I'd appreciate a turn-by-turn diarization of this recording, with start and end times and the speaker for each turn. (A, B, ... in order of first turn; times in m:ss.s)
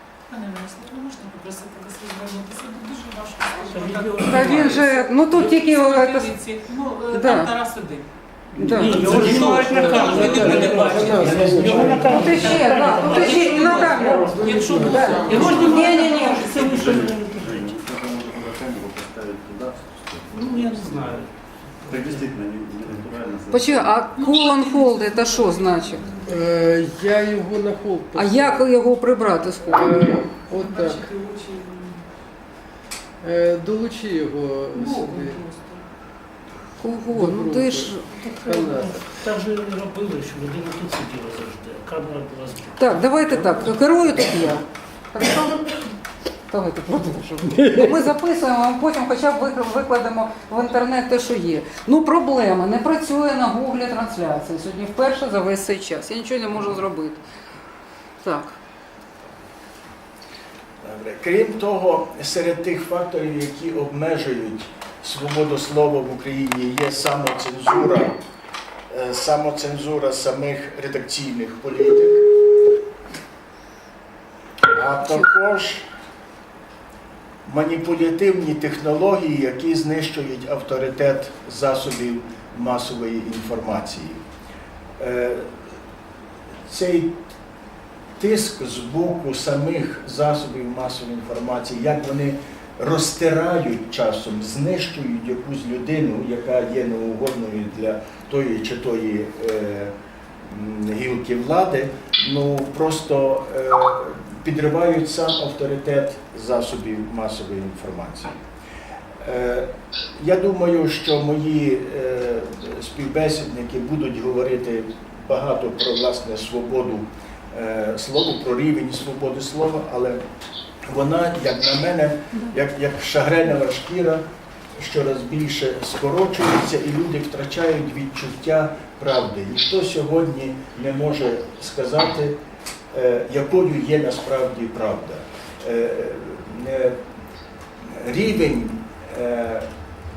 0:00.3-0:08.1 A
0:03.7-0:05.4 B
0:04.2-0:06.4 C
0:07.1-0:07.5 C
0:08.6-0:09.1 C
0:08.6-0:17.7 B
0:08.7-0:17.1 A
0:08.9-0:09.6 D
0:09.0-0:12.2 E
0:10.2-0:12.7 D
0:12.1-0:16.5 C
0:13.9-0:15.6 E
0:16.5-0:20.9 F
0:20.3-0:21.3 B
0:21.8-0:24.1 F
0:21.8-0:22.2 B
0:23.5-0:26.1 C
0:24.1-0:26.2 A
0:26.2-0:28.7 E
0:28.1-0:30.2 C
0:29.6-0:31.1 E
0:30.5-0:32.0 A
0:33.2-0:35.4 E
0:34.7-0:35.8 A
0:36.8-0:38.6 C
0:37.1-0:39.1 E
0:38.5-0:44.5 B
0:42.8-0:45.8 C
0:46.5-0:57.2 C
0:47.5-0:47.9 E
0:58.2-0:58.6 C
1:00.8-1:08.2 D
1:08.9-1:12.2 D
1:14.7-1:15.8 D
1:17.4-1:24.2 D
1:25.0-1:25.5 D
1:26.7-1:27.2 D
1:28.2-1:39.9 D
1:40.4-1:48.3 D
1:49.2-2:00.2 D
2:00.8-2:04.2 D
2:04.8-2:12.4 D
2:12.9-2:17.0 D
2:17.8-2:19.7 D